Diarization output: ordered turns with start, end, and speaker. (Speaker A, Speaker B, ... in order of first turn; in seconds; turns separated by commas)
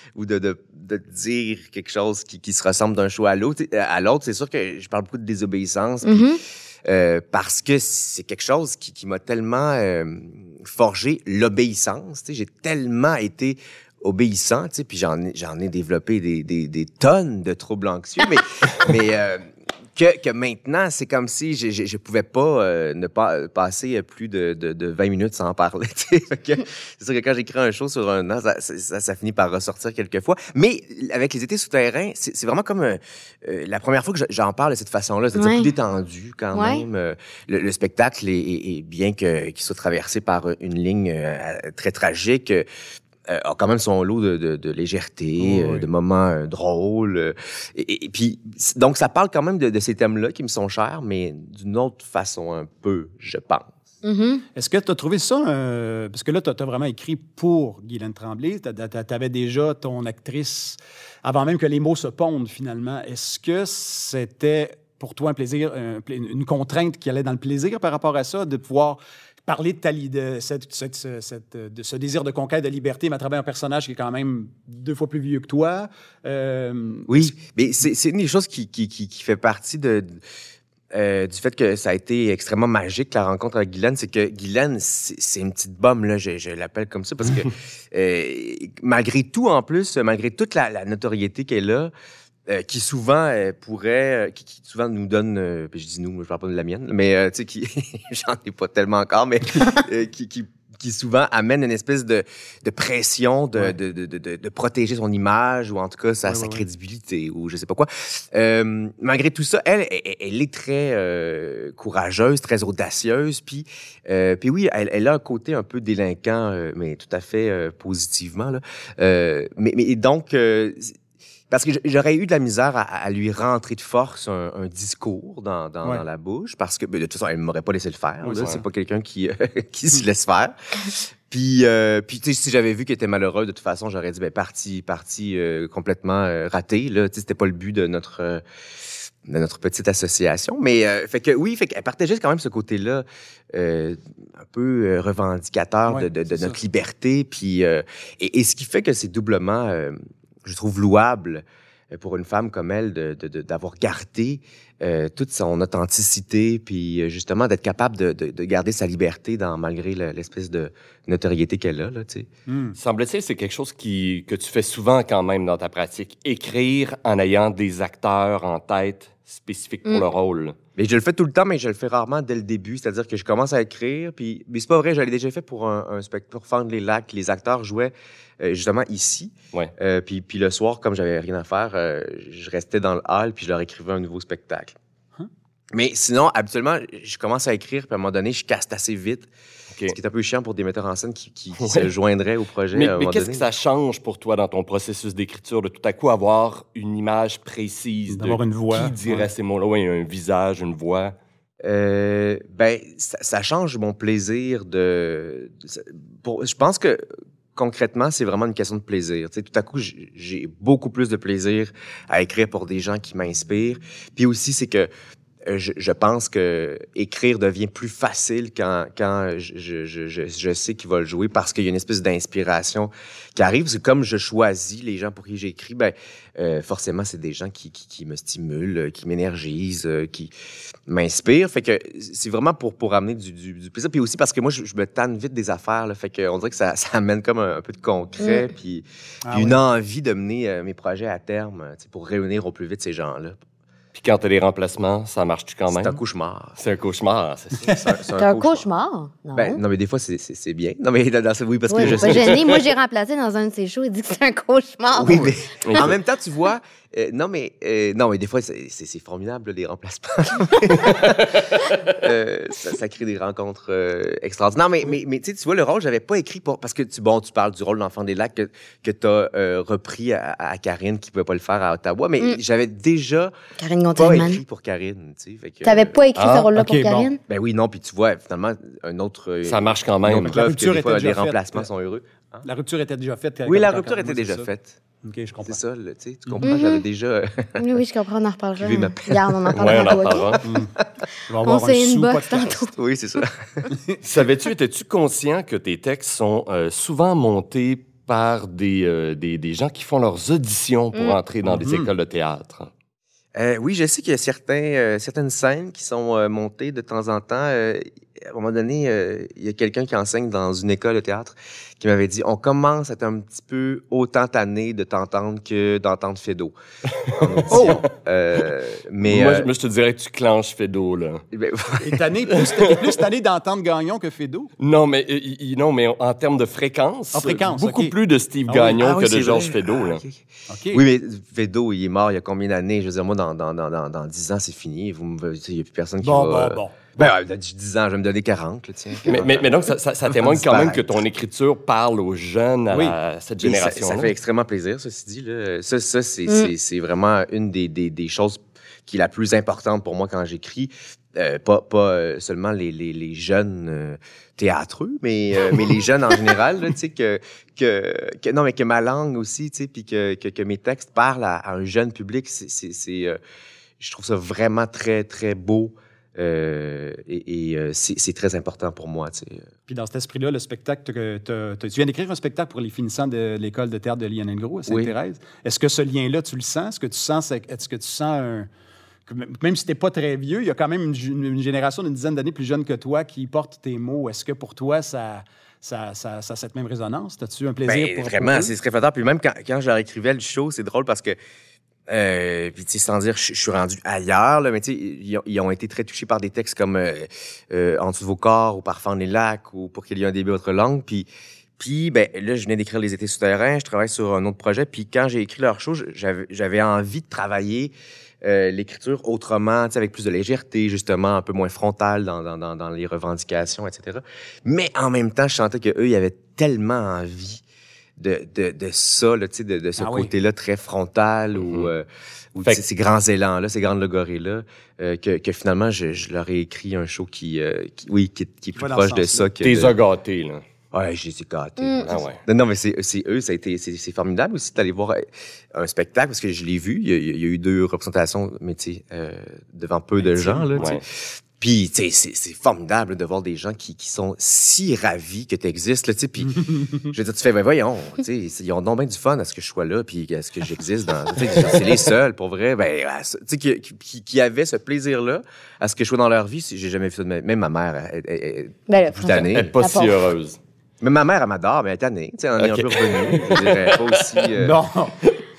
Speaker A: 0.1-42.7, Speaker B: 6.0-6.4, Speaker B: 35.4-35.7, Speaker B: 36.5-36.8, Speaker A: 43.3-53.8, Speaker C: 45.4-45.9, Speaker B: 54.0-54.5, Speaker C: 54.5-77.3, Speaker A: 77.1-80.2, Speaker A: 80.9-91.9, Speaker A: 92.5-121.0, Speaker C: 106.3-106.6, Speaker A: 121.5-162.3, Speaker C: 128.2-128.6, Speaker D: 128.3-128.6, Speaker C: 145.9-146.6, Speaker C: 162.5-162.8, Speaker D: 162.8-170.6, Speaker A: 170.8-184.8, Speaker A: 185.7-189.3, Speaker A: 189.9-193.4, Speaker D: 191.6-191.9, Speaker D: 192.7-201.2, Speaker C: 198.1-199.3, Speaker A: 201.6-214.9, Speaker A: 215.4-230.3, Speaker A: 230.9-243.4, Speaker C: 239.2-239.6, Speaker D: 243.9-246.0, Speaker A: 245.7-246.6, Speaker D: 246.6-247.9, Speaker A: 247.6-248.7, Speaker B: 248.2-249.6, Speaker A: 249.3-252.6, Speaker B: 251.7-255.8, Speaker D: 251.8-252.4, Speaker A: 254.9-261.2, Speaker D: 255.7-255.9, Speaker D: 260.7-261.9, Speaker A: 261.9-273.3, Speaker B: 273.6-274.4, Speaker A: 273.9-276.0, Speaker B: 275.6-277.2, Speaker D: 276.1-276.5, Speaker C: 276.6-277.1, Speaker A: 277.3-282.5, Speaker D: 279.4-280.4, Speaker C: 280.2-281.7, Speaker C: 282.4-284.5, Speaker A: 283.4-284.8, Speaker C: 285.0-285.6, Speaker A: 285.4-287.7, Speaker B: 286.4-286.8, Speaker B: 287.6-290.4, Speaker A: 288.6-290.9, Speaker D: 289.5-290.4, Speaker C: 290.4-290.7, Speaker C: 291.3-292.6, Speaker B: 291.4-292.7, Speaker A: 292.6-293.7, Speaker D: 294.0-302.7, Speaker C: 301.5-301.9, Speaker A: 303.4-316.6, Speaker A: 317.1-319.5, Speaker D: 317.5-317.8, Speaker C: 317.5-317.8, Speaker D: 319.0-321.2, Speaker A: 321.3-322.0, Speaker C: 321.8-324.5, Speaker D: 324.6-330.0, Speaker C: 327.1-327.9, Speaker C: 328.5-328.9, Speaker A: 328.8-339.5, Speaker C: 330.5-330.8, Speaker C: 336.0-336.8, Speaker D: 339.1-344.2, Speaker A: 340.1-341.0, Speaker A: 343.4-363.2, Speaker A: 363.8-369.5, Speaker C: 369.7-378.5, Speaker A: 374.7-374.9, Speaker C: 379.1-388.5, Speaker A: 387.6-391.2, Speaker A: 391.9-417.4, Speaker A: 418.0-429.8, Speaker C: 419.8-420.1, Speaker D: 421.4-421.7, Speaker C: 428.6-429.3, Speaker D: 429.4-430.4, Speaker A: 430.7-459.5, Speaker B: 431.6-431.9, Speaker D: 431.8-432.2, Speaker C: 440.0-440.5, Speaker B: 458.7-460.0, Speaker D: 459.1-460.4, Speaker A: 460.8-464.6, Speaker D: 462.8-464.2, Speaker C: 464.4-465.0